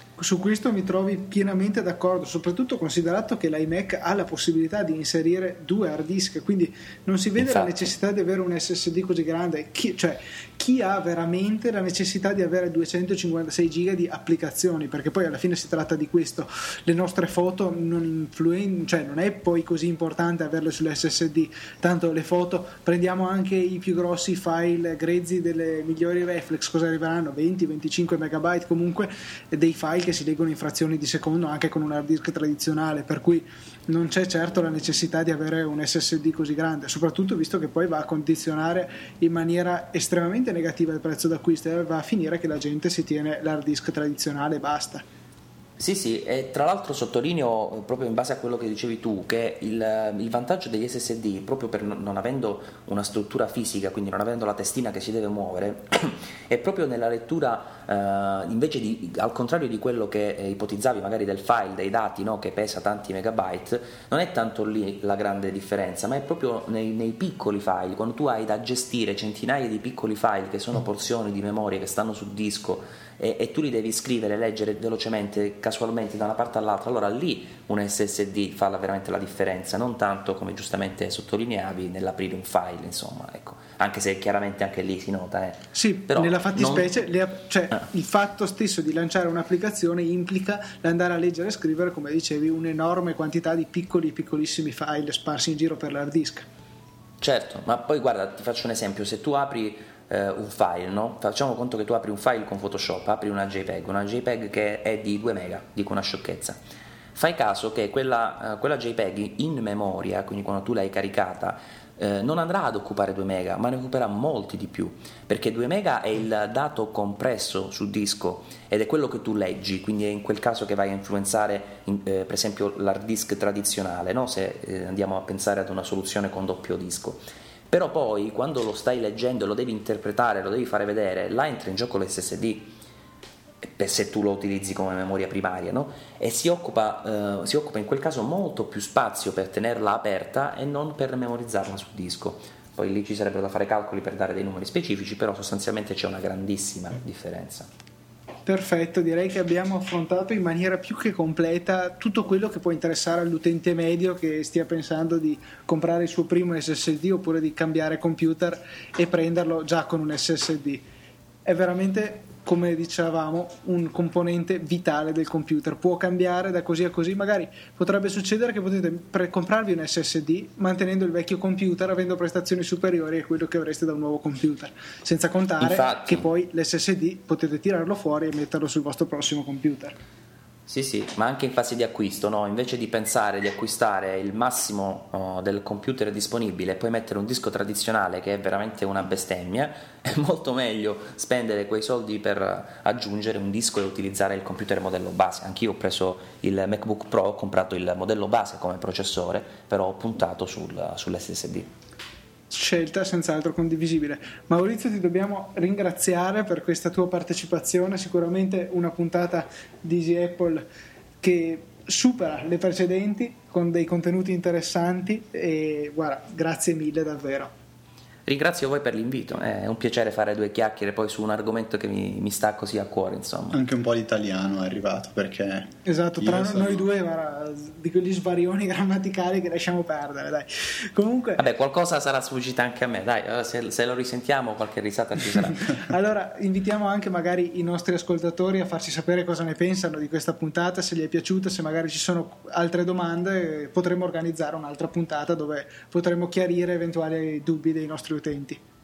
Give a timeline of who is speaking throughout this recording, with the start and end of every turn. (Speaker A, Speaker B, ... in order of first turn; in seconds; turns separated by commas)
Speaker A: 0.2-45.0, Speaker B: 7.4-7.7, Speaker B: 45.8-87.0, Speaker A: 85.8-96.5, Speaker B: 97.2-106.6, Speaker B: 107.2-132.8, Speaker B: 133.6-147.7, Speaker A: 148.5-160.8, Speaker A: 161.4-180.0, Speaker B: 175.6-176.3, Speaker B: 180.7-201.7, Speaker A: 202.5-210.7, Speaker A: 211.2-217.5, Speaker B: 218.3-223.6, Speaker C: 223.5-226.9, Speaker A: 225.8-231.4, Speaker B: 231.4-235.8, Speaker A: 235.8-248.6